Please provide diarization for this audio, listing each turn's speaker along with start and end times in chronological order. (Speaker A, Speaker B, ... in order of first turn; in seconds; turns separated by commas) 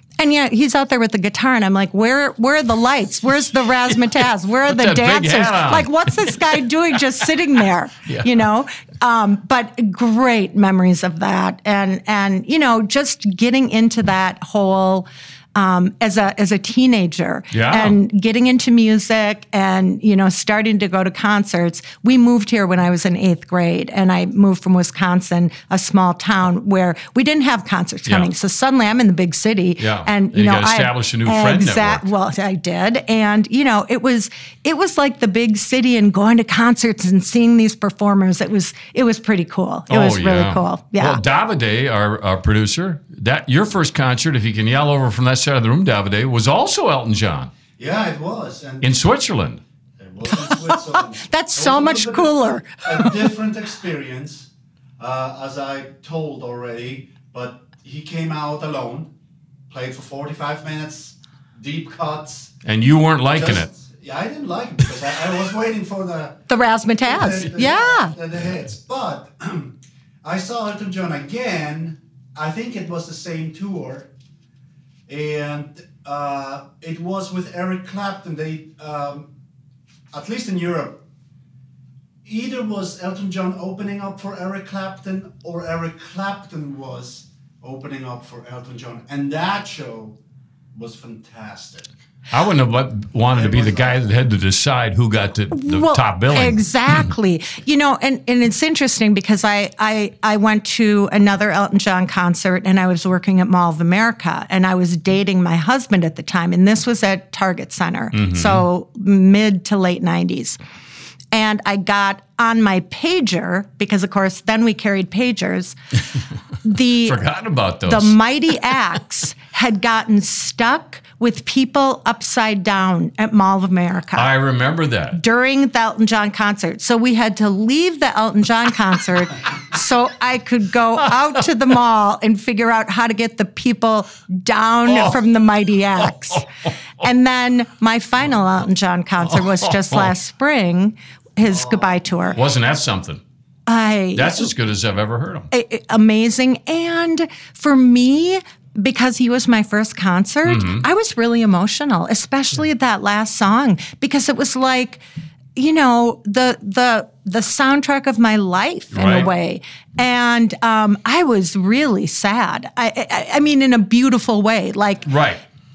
Speaker A: 0.2-41.2, Speaker B: 4.7-6.4, Speaker B: 17.5-18.0, Speaker B: 29.8-32.1, Speaker B: 39.9-47.5, Speaker C: 47.8-48.9, Speaker B: 48.8-49.6, Speaker C: 50.0-54.5, Speaker A: 50.3-53.3, Speaker C: 55.0-59.1, Speaker C: 59.7-62.5, Speaker B: 62.6-63.7, Speaker C: 63.3-66.5, Speaker A: 66.5-68.1, Speaker C: 67.0-74.1, Speaker C: 75.1-79.3, Speaker C: 80.1-81.0, Speaker C: 82.2-90.1, Speaker C: 90.7-91.9, Speaker B: 92.3-96.6, Speaker C: 93.3-94.0, Speaker A: 95.5-110.6, Speaker B: 108.1-108.6, Speaker A: 111.3-115.7, Speaker A: 116.6-117.2, Speaker B: 116.8-118.2, Speaker A: 117.9-124.3, Speaker B: 124.1-125.2, Speaker A: 125.1-142.4, Speaker B: 134.8-135.2, Speaker B: 136.3-136.7, Speaker B: 139.3-140.1, Speaker C: 141.5-142.3, Speaker B: 142.3-143.2, Speaker A: 143.7-144.5, Speaker B: 144.1-145.5, Speaker A: 145.5-155.0, Speaker B: 150.4-150.9, Speaker A: 155.6-165.1, Speaker B: 158.9-159.3, Speaker B: 165.1-165.4